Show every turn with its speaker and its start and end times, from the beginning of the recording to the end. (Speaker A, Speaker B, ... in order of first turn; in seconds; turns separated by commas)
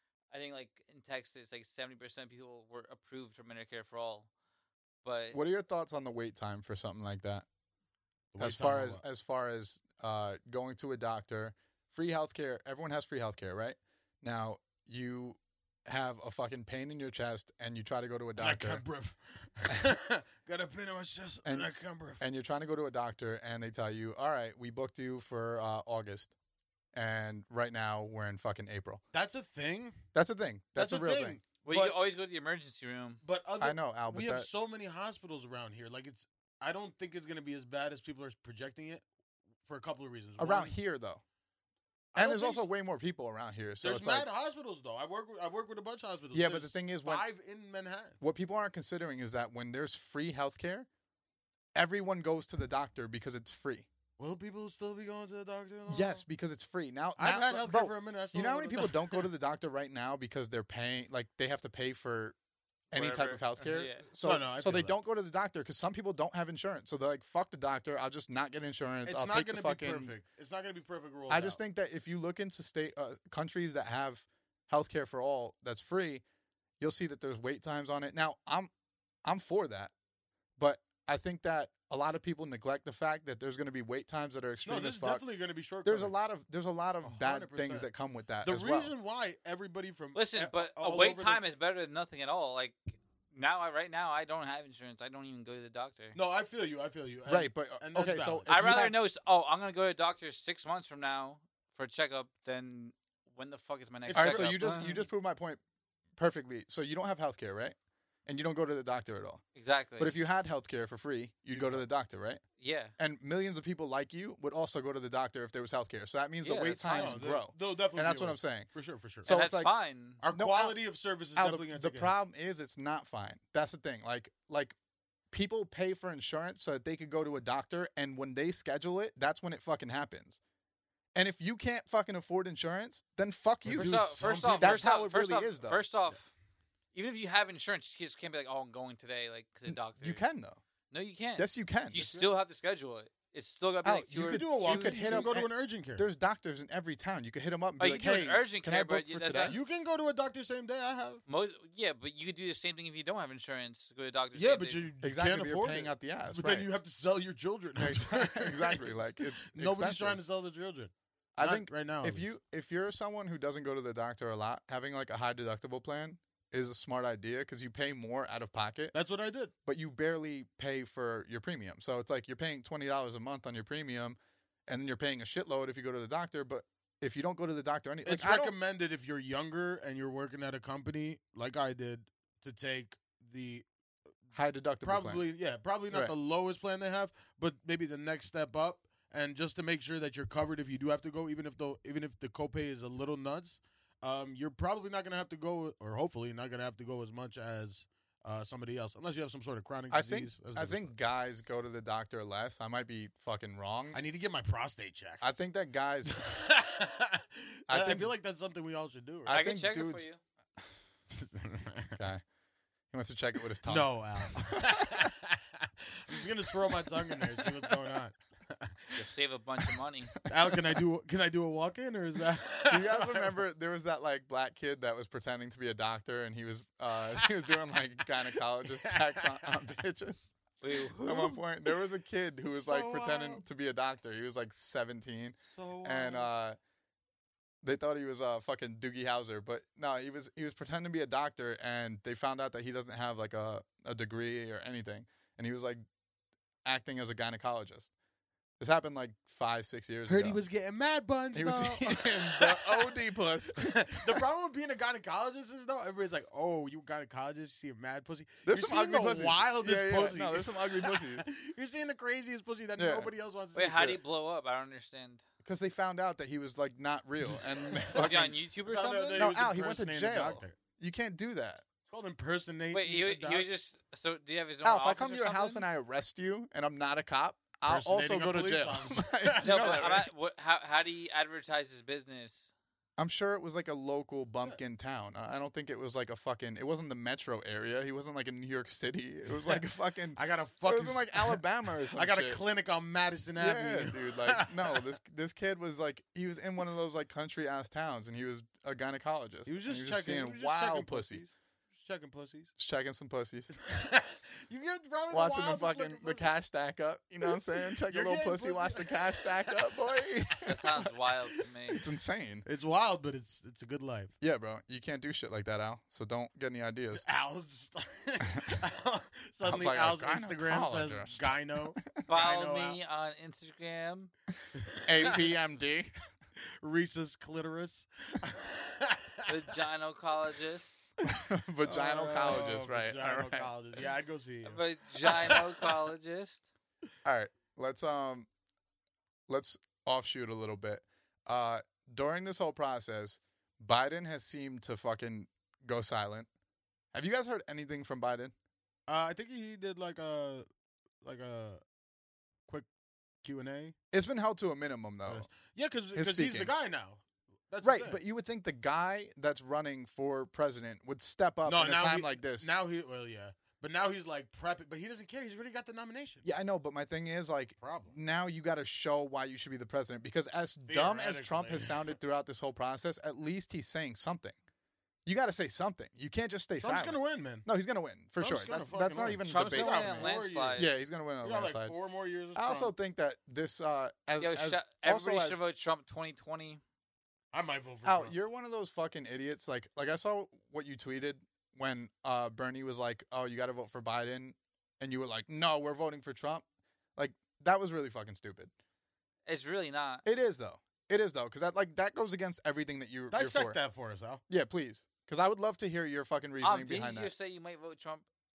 Speaker A: 0.3-4.3, Speaker A: 5.0-5.4, Speaker B: 5.3-7.5, Speaker C: 8.3-9.0, Speaker B: 8.4-18.8, Speaker C: 18.4-22.2, Speaker B: 21.4-26.3, Speaker B: 26.9-29.0, Speaker C: 29.1-30.0, Speaker B: 30.1-31.4, Speaker C: 30.8-31.9, Speaker A: 31.6-33.2, Speaker C: 33.2-39.0, Speaker B: 33.6-34.5, Speaker C: 39.6-40.7, Speaker B: 40.4-41.2, Speaker C: 42.1-42.7, Speaker B: 42.1-44.3, Speaker C: 43.8-48.2, Speaker B: 46.3-47.2, Speaker B: 48.2-50.9, Speaker B: 51.7-53.9, Speaker C: 54.2-56.2, Speaker B: 55.9-62.4, Speaker C: 57.2-59.3, Speaker A: 62.9-64.0, Speaker B: 62.9-70.1, Speaker C: 64.2-64.9, Speaker C: 69.0-71.6, Speaker B: 71.3-76.2, Speaker B: 76.8-78.7, Speaker B: 79.2-79.9, Speaker B: 80.6-85.2, Speaker C: 84.6-86.1, Speaker B: 85.8-88.9, Speaker C: 87.0-87.9, Speaker C: 88.4-91.4, Speaker A: 90.1-96.2, Speaker C: 96.1-98.9, Speaker B: 97.2-98.9, Speaker A: 98.5-105.0, Speaker C: 104.1-105.0, Speaker B: 104.1-105.6, Speaker B: 106.2-109.4, Speaker A: 109.5-110.1, Speaker B: 110.0-112.4, Speaker C: 111.5-111.8, Speaker A: 112.6-112.9, Speaker B: 113.0-118.7, Speaker A: 116.4-117.2, Speaker C: 116.9-119.3, Speaker B: 119.2-119.7, Speaker A: 119.3-120.2, Speaker C: 120.2-122.1, Speaker B: 120.3-120.8, Speaker B: 121.3-124.7, Speaker B: 125.3-130.4, Speaker B: 131.1-135.8, Speaker C: 133.6-134.8, Speaker A: 133.7-136.3, Speaker A: 136.9-140.2, Speaker B: 139.7-140.6, Speaker A: 140.9-145.3, Speaker B: 141.4-142.1, Speaker C: 141.9-142.3, Speaker B: 143.8-149.6, Speaker C: 144.2-146.1, Speaker A: 147.8-149.6, Speaker C: 149.4-151.2, Speaker A: 151.3-154.8, Speaker C: 154.3-162.2, Speaker B: 155.0-156.7, Speaker B: 157.8-160.2, Speaker B: 161.3-168.9, Speaker C: 168.9-169.5, Speaker B: 169.7-178.5, Speaker C: 178.0-183.7, Speaker B: 184.3-185.2, Speaker C: 184.8-200.9, Speaker B: 199.9-204.0, Speaker C: 203.9-205.3, Speaker B: 205.2-206.3, Speaker C: 206.1-209.4, Speaker B: 207.7-208.1, Speaker B: 209.2-210.0, Speaker A: 209.3-210.2, Speaker C: 211.1-212.0, Speaker B: 212.0-212.2, Speaker B: 212.9-215.1, Speaker C: 213.6-219.0, Speaker B: 217.2-217.9, Speaker A: 218.9-220.1, Speaker C: 220.2-223.3, Speaker B: 220.4-220.8, Speaker B: 222.7-230.3, Speaker C: 228.3-229.5, Speaker A: 230.6-231.4, Speaker B: 231.0-236.6, Speaker C: 232.5-233.4, Speaker C: 235.4-236.3, Speaker B: 237.6-245.8, Speaker B: 246.6-247.9, Speaker B: 248.6-250.4, Speaker C: 250.1-253.0, Speaker B: 251.3-254.2, Speaker C: 253.5-264.0, Speaker B: 258.4-261.3, Speaker B: 262.8-263.1, Speaker A: 263.5-265.2, Speaker B: 265.4-268.3, Speaker C: 267.3-268.1, Speaker A: 267.9-269.3, Speaker C: 268.6-270.6, Speaker B: 269.1-271.6, Speaker C: 271.9-273.5, Speaker A: 272.7-275.6, Speaker B: 274.6-280.1, Speaker C: 277.6-280.0, Speaker A: 279.4-282.5, Speaker B: 283.0-292.4, Speaker C: 289.4-289.6, Speaker C: 290.1-294.8, Speaker B: 293.4-301.2, Speaker C: 299.4-302.5, Speaker B: 302.6-303.6, Speaker C: 303.6-306.3, Speaker B: 305.1-310.8, Speaker C: 307.2-310.9, Speaker A: 310.4-311.8, Speaker B: 311.7-312.4, Speaker C: 312.4-314.1, Speaker B: 314.2-317.1, Speaker C: 316.9-322.8, Speaker B: 318.3-318.6, Speaker B: 319.4-322.0, Speaker A: 322.1-324.1, Speaker C: 324.6-325.3, Speaker B: 324.8-325.9, Speaker C: 326.6-329.3, Speaker A: 329.2-330.8, Speaker B: 331.0-333.5, Speaker C: 331.6-335.8, Speaker A: 334.4-336.4, Speaker B: 337.0-338.3, Speaker B: 339.3-346.3, Speaker B: 346.9-348.3, Speaker C: 348.9-350.4, Speaker C: 351.0-351.6, Speaker C: 353.2-353.7, Speaker B: 353.9-355.3, Speaker C: 355.0-358.0, Speaker B: 355.9-356.5, Speaker B: 357.6-362.5, Speaker C: 361.4-366.2, Speaker B: 366.2-374.3, Speaker C: 367.6-367.9, Speaker C: 370.6-371.9, Speaker B: 375.1-381.7, Speaker C: 376.6-377.5, Speaker C: 378.2-380.7, Speaker A: 379.2-380.7, Speaker C: 381.2-382.7, Speaker B: 382.3-385.4, Speaker A: 384.2-386.6, Speaker C: 387.3-388.1, Speaker B: 387.8-396.4, Speaker B: 397.0-398.5, Speaker A: 399.2-400.0, Speaker B: 400.0-403.6, Speaker C: 403.1-404.2, Speaker B: 404.3-407.1, Speaker A: 406.4-408.0